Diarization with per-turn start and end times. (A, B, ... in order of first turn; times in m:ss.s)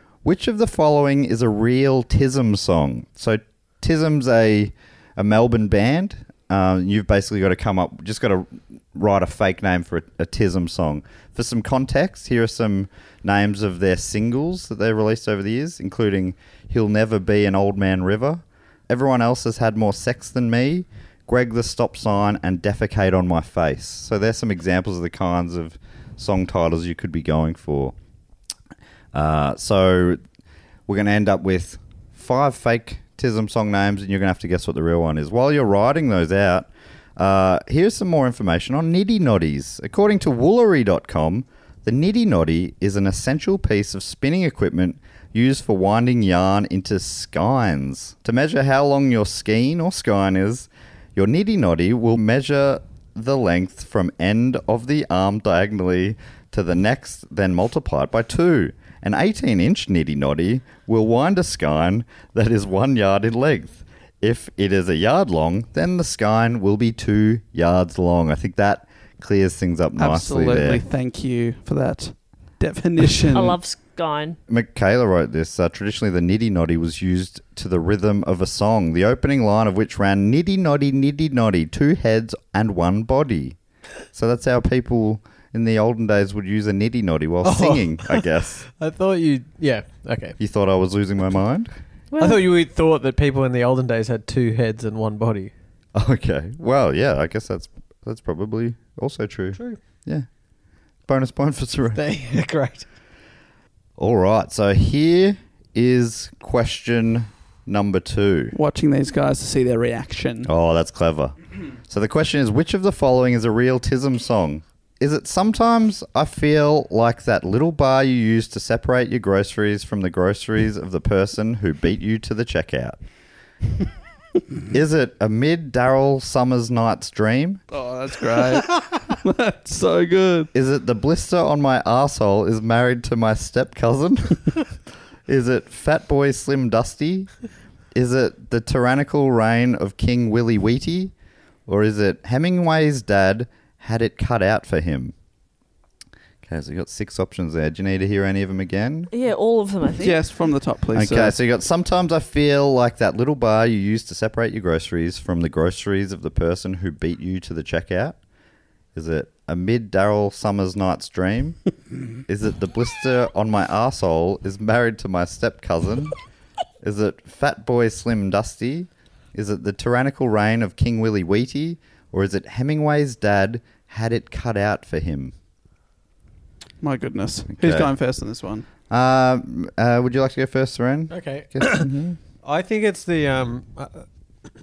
0:00.2-0:28.0 A
0:29.1-0:30.2 A
0:30.9-1:10.8 A
1:10.0-1:13.6 B
1:13.3-1:14.4 C
1:14.5-1:23.6 A
1:24.1-1:28.6 A
1:27.4-1:30.4 D
1:30.4-1:31.7 A
1:32.1-1:32.4 C
1:32.2-1:35.5 D
1:36.0-1:40.3 A
1:41.1-1:42.0 A
1:42.0-1:42.9 D
1:44.0-1:48.6 A
1:48.5-1:50.5 B
1:50.4-1:51.4 A
1:51.9-2:03.0 A
2:04.7-2:07.6 A
2:07.7-2:10.5 B
2:10.5-2:14.6 A
2:15.3-2:17.3 A
2:17.9-2:21.1 A
2:21.7-2:25.1 A
2:26.4-2:29.1 A
2:29.1-2:30.2 C
2:30.0-2:31.4 B
2:30.9-2:38.2 A
2:39.0-2:41.6 A
2:42.3-2:46.2 A
2:46.8-2:55.3 A
2:56.8-2:58.7 B
2:57.5-2:57.9 A
2:58.9-3:02.2 A
3:01.1-3:01.9 D
3:02.4-3:04.1 D